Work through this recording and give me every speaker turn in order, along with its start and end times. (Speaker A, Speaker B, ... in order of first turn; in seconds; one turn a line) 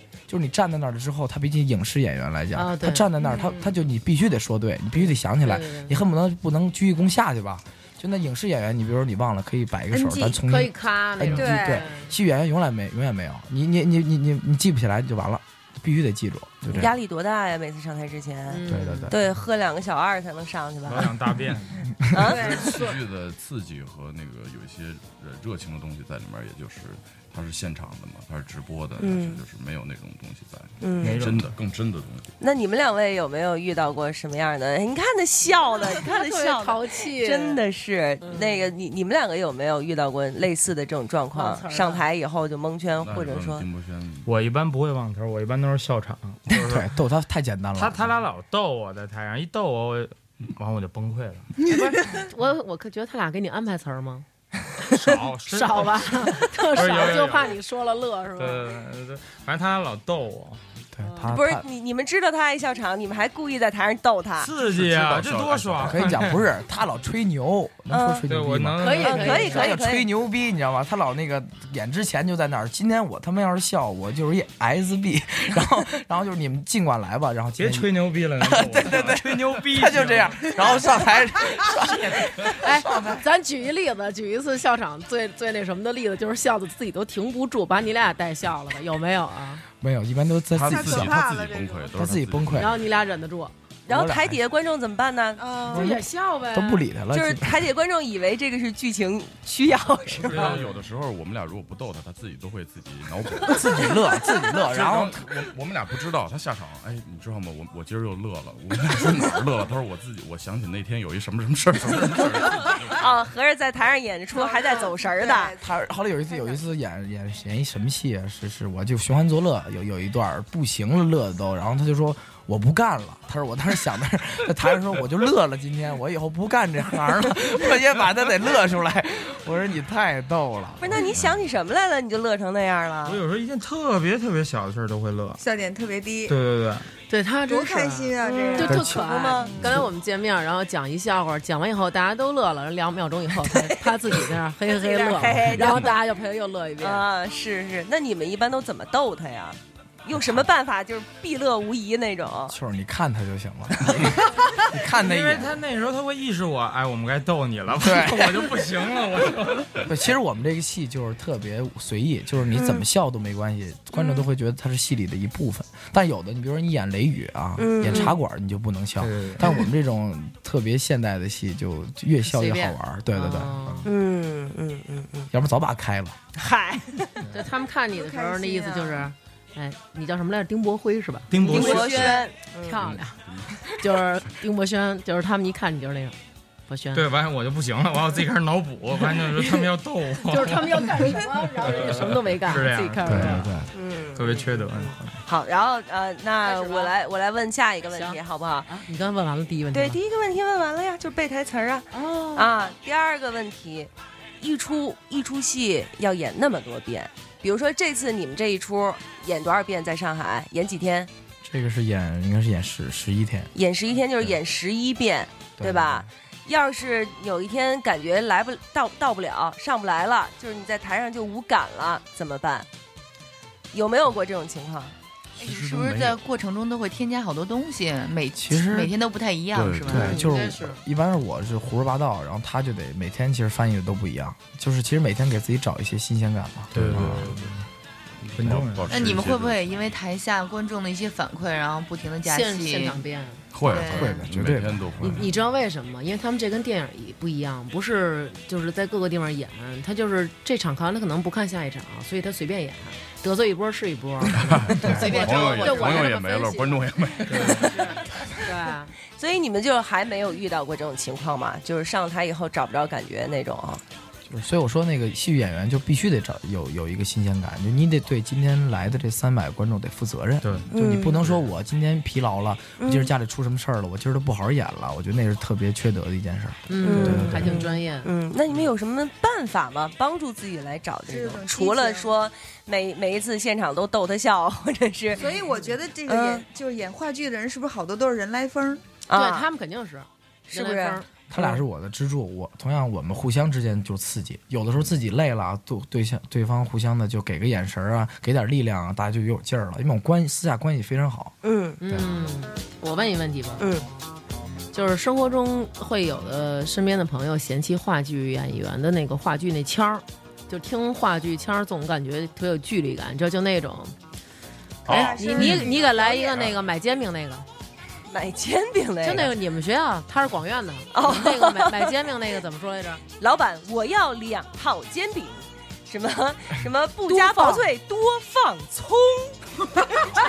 Speaker A: 0.3-16.9
Speaker B: 2.5-3.1
Speaker C: 3.2-3.6
Speaker B: 5.0-5.9
Speaker B: 9.9-12.1
Speaker C: 11.3-11.8
Speaker D: 16.7-21.2
Speaker B: 18.5-19.1
Speaker A: 18.7-19.2
Speaker E: 20.9-21.8
Speaker D: 22.1-22.7
Speaker C: 22.2-22.9
Speaker F: 22.2-32.3
Speaker D: 29.0-29.4
Speaker D: 30.8-31.2
Speaker E: 31.0-31.5
Speaker D: 32.4-43.7
Speaker B: 35.9-37.6
Speaker B: 38.2-38.7
Speaker B: 41.3-42.0
Speaker F: 43.0-44.3
Speaker E: 44.2-46.9
Speaker A: 46.5-48.1
Speaker E: 47.8-51.5
Speaker B: 51.7-54.3
Speaker E: 54.9-57.6
Speaker B: 55.5-58.7
Speaker E: 58.4-60.6
Speaker A: 60.9-61.7
Speaker D: 61.3-64.6
Speaker E: 64.4-66.4
Speaker F: 64.7-66.2
Speaker A: 65.8-83.2
Speaker D: 67.9-68.2
Speaker E: 68.3-69.5
Speaker B: 68.8-69.7
Speaker D: 69.0-70.1
Speaker E: 77.6-80.9
Speaker B: 82.5-89.6
Speaker A: 89.8-91.3
Speaker F: 90.5-92.9
Speaker C: 90.6-92.0
Speaker A: 92.0-92.8
Speaker B: 92.5-93.5
Speaker D: 93.9-95.6
Speaker A: 93.9-94.4
Speaker C: 95.4-95.9
Speaker B: 95.7-96.9
Speaker A: 95.7-97.7
Speaker D: 97.1-100.6
Speaker F: 100.2-113.0
Speaker E: 100.3-100.8
Speaker A: 103.5-105.3
Speaker D: 112.9-115.5
Speaker C: 114.3-115.7
Speaker A: 115.6-131.0
Speaker D: 130.8-133.2
Speaker F: 130.9-131.4
Speaker E: 133.1-135.4
Speaker C: 135.4-136.3
Speaker E: 136.3-136.9
Speaker B: 137.1-147.1
Speaker C: 137.5-139.8
Speaker D: 138.2-139.5
Speaker A: 138.7-139.0
Speaker A: 139.6-139.8
Speaker D: 144.7-145.9
Speaker D: 146.8-152.6
Speaker A: 150.1-150.5
Speaker A: 152.5-155.6
Speaker E: 154.9-160.0
Speaker A: 157.8-158.5
Speaker A: 159.8-173.9
Speaker D: 162.6-162.8
Speaker D: 167.6-168.1
Speaker E: 169.0-169.4
Speaker B: 172.3-173.9
Speaker D: 173.8-175.3
Speaker A: 175.3-176.2
Speaker D: 176.3-177.1
Speaker B: 177.3-187.1
Speaker C: 177.9-179.1
Speaker E: 181.3-182.1
Speaker D: 181.4-182.8
Speaker G: 181.6-182.1
Speaker F: 182.8-183.6
Speaker E: 186.9-191.0
Speaker B: 190.3-193.4
Speaker E: 191.6-193.5
Speaker A: 193.1-193.7
Speaker D: 193.7-198.8
Speaker E: 194.2-195.1
Speaker B: 196.4-196.9
Speaker B: 198.7-200.0
Speaker D: 199.7-211.1
Speaker B: 201.9-202.5
Speaker A: 211.4-213.5
Speaker D: 213.6-222.7
Speaker A: 215.6-216.1
Speaker D: 223.7-224.9
Speaker F: 225.4-226.2
Speaker G: 225.4-230.2
Speaker A: 228.4-228.9
Speaker F: 229.5-230.0
Speaker A: 229.9-237.3
Speaker B: 230.0-230.8
Speaker E: 236.7-237.7
Speaker F: 236.7-237.5
Speaker F: 238.3-239.8
Speaker E: 238.3-239.2
Speaker G: 238.9-243.0
Speaker B: 242.2-243.4
Speaker F: 243.5-245.3
Speaker G: 243.6-244.2
Speaker A: 243.7-245.3
Speaker B: 245.0-258.9
Speaker F: 254.3-258.0
Speaker A: 254.8-255.2
Speaker G: 254.9-256.1
Speaker E: 257.3-257.7
Speaker D: 259.2-263.8
Speaker A: 264.3-277.6
Speaker E: 270.4-270.7
Speaker D: 270.7-271.2
Speaker D: 272.8-273.1
Speaker B: 276.7-278.1
Speaker D: 276.8-285.4
Speaker E: 277.2-277.6
Speaker C: 281.1-282.1
Speaker C: 285.1-288.8
Speaker D: 286.1-286.4
Speaker D: 289.1-289.5
Speaker B: 289.1-291.1
Speaker D: 290.5-291.5
Speaker A: 291.3-301.4
Speaker D: 301.4-301.8
Speaker B: 301.8-303.7
Speaker D: 303.6-303.9
Speaker B: 304.7-313.9
Speaker C: 314.9-316.5
Speaker E: 314.9-315.6
Speaker B: 314.9-317.5
Speaker D: 318.1-319.3
Speaker B: 319.0-323.0
Speaker D: 320.9-321.9
Speaker D: 323.2-329.4
Speaker B: 327.1-327.7